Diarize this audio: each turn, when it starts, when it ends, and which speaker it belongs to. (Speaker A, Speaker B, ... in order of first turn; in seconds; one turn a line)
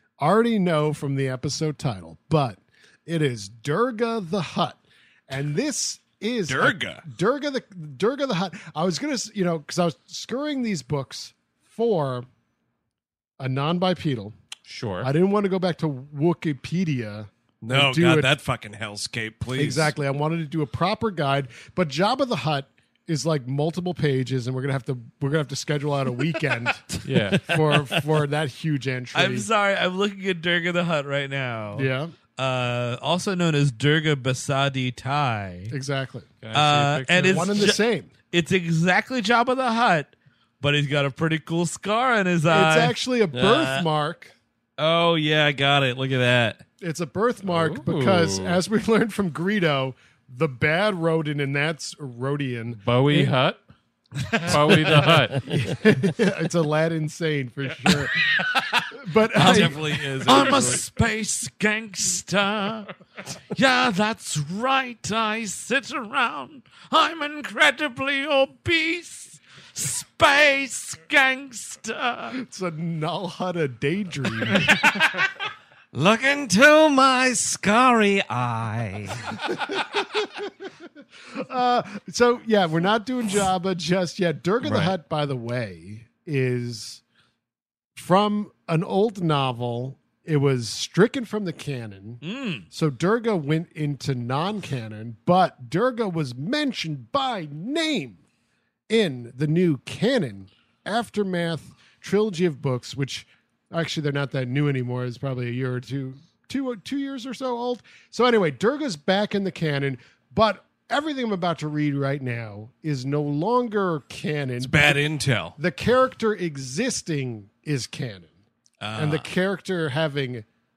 Speaker A: 0.2-12.3
Speaker B: 6.5-7.0
Speaker A: 13.4-14.4
Speaker C: 14.7-15.1
Speaker A: 15.0-18.3
Speaker B: 17.6-19.9
Speaker A: 19.6-26.9
Speaker C: 27.1-27.6
Speaker D: 27.3-27.7
Speaker A: 27.5-29.5
Speaker D: 29.1-35.8
Speaker A: 31.8-32.1
Speaker A: 35.7-36.3
Speaker C: 36.4-37.7
Speaker D: 36.5-43.0
Speaker A: 37.3-38.1
Speaker A: 42.5-44.3
Speaker B: 43.3-43.8
Speaker B: 44.8-46.6
Speaker A: 46.8-52.8
Speaker C: 47.5-48.6
Speaker C: 52.8-53.6
Speaker B: 54.3-54.8
Speaker C: 54.5-55.5
Speaker A: 54.6-58.3
Speaker A: 58.9-60.8
Speaker B: 59.3-60.8
Speaker D: 59.4-62.9
Speaker D: 63.5-72.4
Speaker A: 72.3-75.2
Speaker B: 74.6-75.3
Speaker B: 75.9-79.5
Speaker A: 79.5-80.4
Speaker A: 81.3-87.0
Speaker B: 84.6-85.0
Speaker A: 88.0-98.2
Speaker D: 92.2-92.7
Speaker A: 98.9-115.0
Speaker B: 114.6-115.6
Speaker A: 115.6-118.3
Speaker B: 118.8-119.3
Speaker A: 119.0-120.5